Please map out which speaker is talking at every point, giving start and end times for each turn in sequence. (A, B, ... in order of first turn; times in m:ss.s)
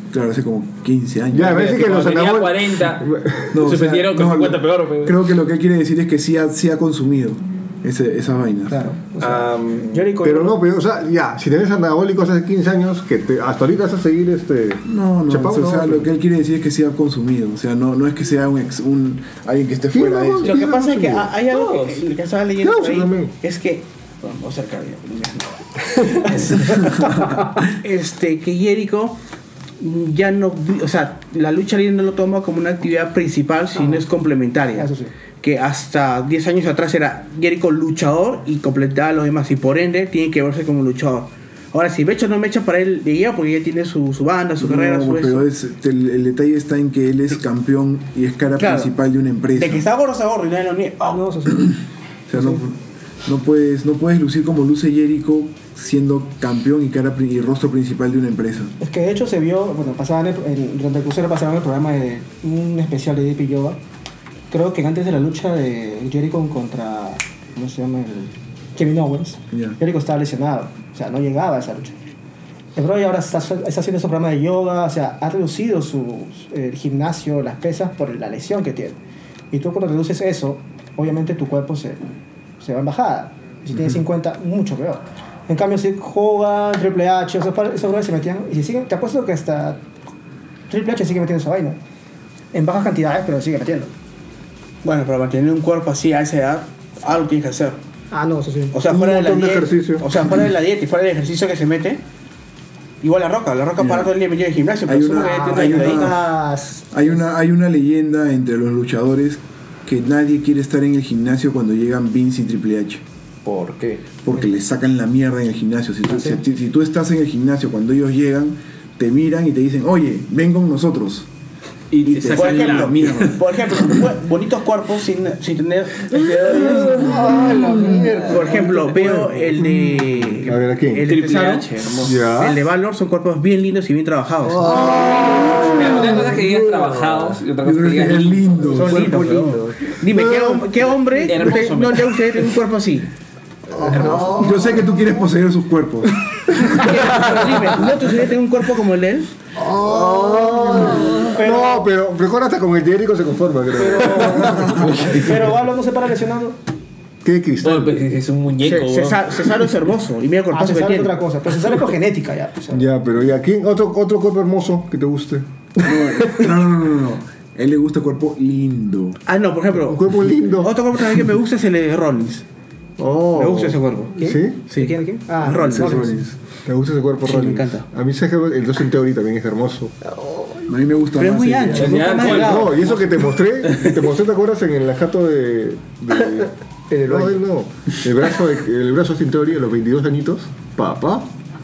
0:00.1-0:01.8 A
0:01.3-0:03.6 B
0:01.4-0:05.2 C
0:03.5-0:08.8 A
0:08.7-0:10.6 D
0:09.2-0:10.0 C
0:10.2-0:16.1 B
0:14.8-0:20.7 A
0:19.9-0:21.3 B
0:20.4-0:29.2 E
0:21.5-0:22.0 C
0:22.6-0:23.3 B
0:29.8-0:34.9 E
0:34.8-0:35.1 D
0:35.4-0:45.4 E
0:44.6-0:49.8 A
0:48.6-0:48.9 E
0:49.6-0:51.4 E
0:51.1-0:51.7 D
0:52.3-0:58.7 A
0:52.4-0:52.6 D
0:58.8-1:03.8 D
1:04.5-1:12.0 D
1:09.5-1:09.8 A
1:12.8-1:19.0 D
1:19.5-1:22.0 D
1:22.6-1:29.8 D
1:30.7-1:31.8 D
1:32.5-1:33.9 D
1:34.8-1:37.8 E
1:38.1-1:38.8 D
1:38.7-1:42.0 E
1:38.8-1:40.1 B
1:43.0-1:46.2 E
1:43.8-1:44.1 A
1:44.9-1:46.2 A
1:45.0-1:47.1 D
1:46.9-1:53.0 A
1:53.4-1:54.1 F
1:54.2-2:01.3 A
1:56.1-1:56.4 D
2:01.9-2:03.4 C
2:02.1-2:03.4 A
2:02.3-2:14.8 E
2:06.2-2:07.4 C
2:06.3-2:08.8 B
2:08.8-2:09.1 C
2:09.6-2:11.2 B
2:11.1-2:12.2 C
2:12.0-2:12.6 B
2:14.5-2:16.2 B
2:15.3-2:18.6 C
2:17.6-2:19.2 A
2:18.7-2:19.9 F
2:18.8-2:19.4 E
2:19.0-2:20.7 B
2:20.0-2:23.1 E
2:21.2-2:22.2 C
2:23.7-2:24.8 B
2:23.9-2:26.2 A
2:24.0-2:24.4 F
2:26.5-2:29.3 E
2:26.9-2:27.4 B
2:29.6-2:31.0 F
2:29.6-2:35.2 B
2:31.0-2:31.9 D
2:33.8-2:36.6 D
2:37.2-2:38.0 B
2:37.6-2:39.4 C
2:38.6-2:41.2 E
2:40.5-2:42.9 D
2:42.7-2:45.4 B
2:45.8-2:49.2 A
2:49.3-2:52.4 E
2:49.8-2:50.7 B
2:53.0-2:54.6 B
2:53.3-2:56.2 E
2:54.2-2:56.2 D
2:55.6-2:56.4 A
2:56.6-3:00.0 B
2:57.2-2:57.9 E
3:00.7-3:02.2 A
3:01.2-3:03.2 E
3:01.7-3:02.9 C
3:02.2-3:11.3 B
3:03.6-3:03.9 C